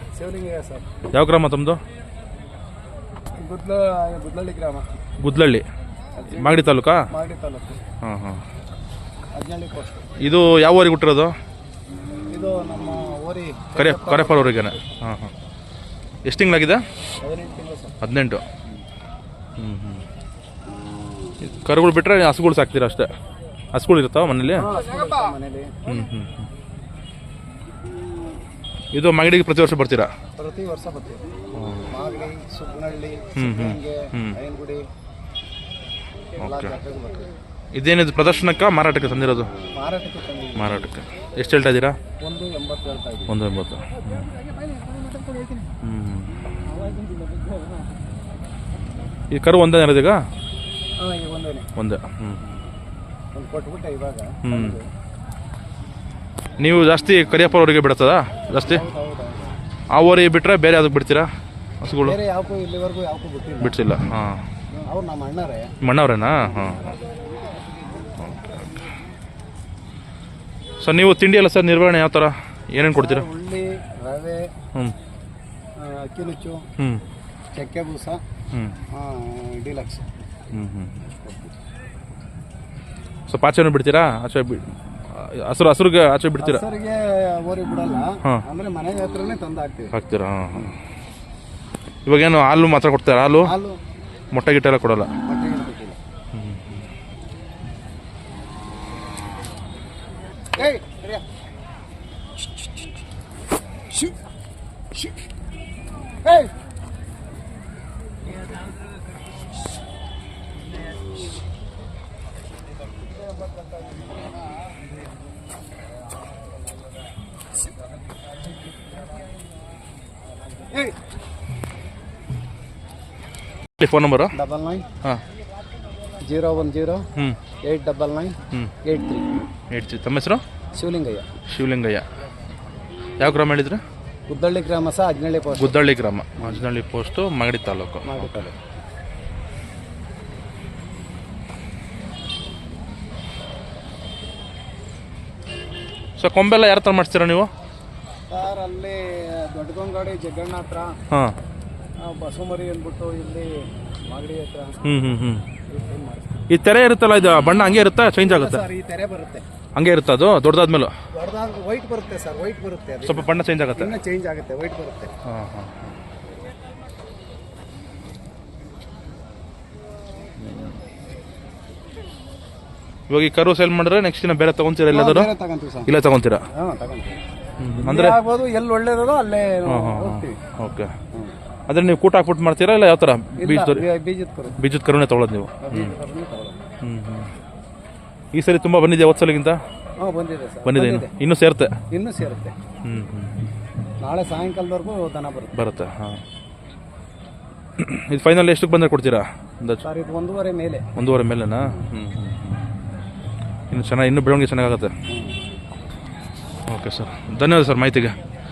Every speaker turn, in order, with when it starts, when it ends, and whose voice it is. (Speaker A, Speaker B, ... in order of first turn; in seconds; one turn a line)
Speaker A: 0.2-0.9
Speaker B: 1.1-1.8
Speaker A: 3.4-4.9
Speaker B: 5.2-5.7
Speaker A: 6.2-7.8
Speaker B: 6.3-7.1
Speaker B: 8.0-8.4
Speaker A: 9.3-10.1
Speaker B: 10.2-11.3
Speaker A: 12.3-14.8
Speaker B: 13.8-15.3
Speaker B: 16.2-16.8
Speaker A: 17.2-18.0
Speaker B: 18.0-18.4
Speaker B: 19.6-20.0
Speaker B: 21.4-23.1
Speaker B: 23.7-24.7
Speaker A: 24.6-25.8
Speaker B: 25.9-26.5
Speaker B: 28.9-30.1
Speaker A: 30.4-31.3
Speaker B: 31.6-31.9
Speaker A: 31.9-34.9
Speaker B: 33.4-34.4
Speaker A: 36.4-37.3
Speaker B: 36.4-36.8
Speaker B: 37.7-39.5
Speaker A: 39.7-40.9
Speaker B: 40.6-42.0
Speaker A: 42.2-43.3
Speaker B: 43.3-44.3
Speaker A: 44.6-45.7
Speaker B: 45.8-46.4
Speaker A: 46.6-47.6
Speaker B: 49.3-50.2
Speaker A: 51.0-51.7
Speaker B: 51.8-52.4
Speaker A: 53.3-54.9
Speaker B: 54.4-54.8
Speaker B: 56.6-58.8
Speaker A: 58.6-59.5
Speaker B: 59.9-61.3
Speaker B: 61.8-62.2
Speaker A: 62.0-63.8
Speaker B: 63.6-64.5
Speaker A: 64.8-65.7
Speaker B: 65.8-67.0
Speaker A: 66.4-66.9
Speaker B: 70.8-73.3
Speaker A: 73.0-74.5
Speaker A: 75.8-76.7
Speaker B: 76.8-77.0
Speaker A: 77.5-78.2
Speaker B: 78.5-78.8
Speaker A: 78.9-80.1
Speaker B: 80.5-81.0
Speaker A: 81.0-81.5
Speaker B: 83.3-86.6
Speaker A: 86.4-89.9
Speaker B: 89.9-90.8
Speaker B: 92.1-93.5
Speaker A: 93.4-93.8
Speaker B: 94.3-95.1
Speaker A: 95.2-96.0
Speaker B: 96.3-96.9
Speaker A: 100.5-101.2
Speaker A: 106.2-106.5
Speaker A: 120.6-121.0
Speaker B: 123.8-124.3
Speaker A: 124.3-124.9
Speaker A: 126.2-127.1
Speaker A: 127.6-129.4
Speaker B: 129.7-130.4
Speaker A: 130.8-131.3
Speaker B: 131.5-132.1
Speaker B: 133.2-133.8
Speaker A: 134.3-135.8
Speaker B: 135.6-138.5
Speaker A: 138.0-138.5
Speaker B: 146.2-147.5
Speaker A: 148.3-151.0
Speaker B: 151.1-151.3
Speaker A: 152.0-154.8
Speaker B: 154.8-155.5
Speaker A: 155.7-156.5
Speaker B: 156.5-158.6
Speaker A: 158.2-159.4
Speaker B: 159.8-160.9
Speaker A: 161.1-165.1
Speaker B: 163.0-164.0
Speaker B: 165.3-165.7
Speaker B: 173.1-175.3
Speaker A: 174.9-175.9
Speaker B: 175.9-176.4
Speaker A: 176.5-177.2
Speaker B: 177.6-178.2
Speaker A: 177.8-180.4
Speaker B: 179.7-180.9
Speaker B: 181.7-183.8
Speaker A: 183.4-184.6
Speaker B: 184.6-185.9
Speaker A: 185.6-186.6
Speaker B: 186.8-187.3
Speaker B: 188.3-189.6
Speaker A: 190.0-191.1
Speaker B: 190.7-191.8
Speaker A: 191.9-192.6
Speaker B: 192.8-193.4
Speaker A: 194.0-195.5
Speaker B: 195.5-196.2
Speaker B: 197.8-199.8
Speaker A: 199.8-200.9
Speaker B: 200.9-202.7
Speaker B: 203.7-204.9
Speaker A: 205.1-205.4
Speaker B: 206.7-208.2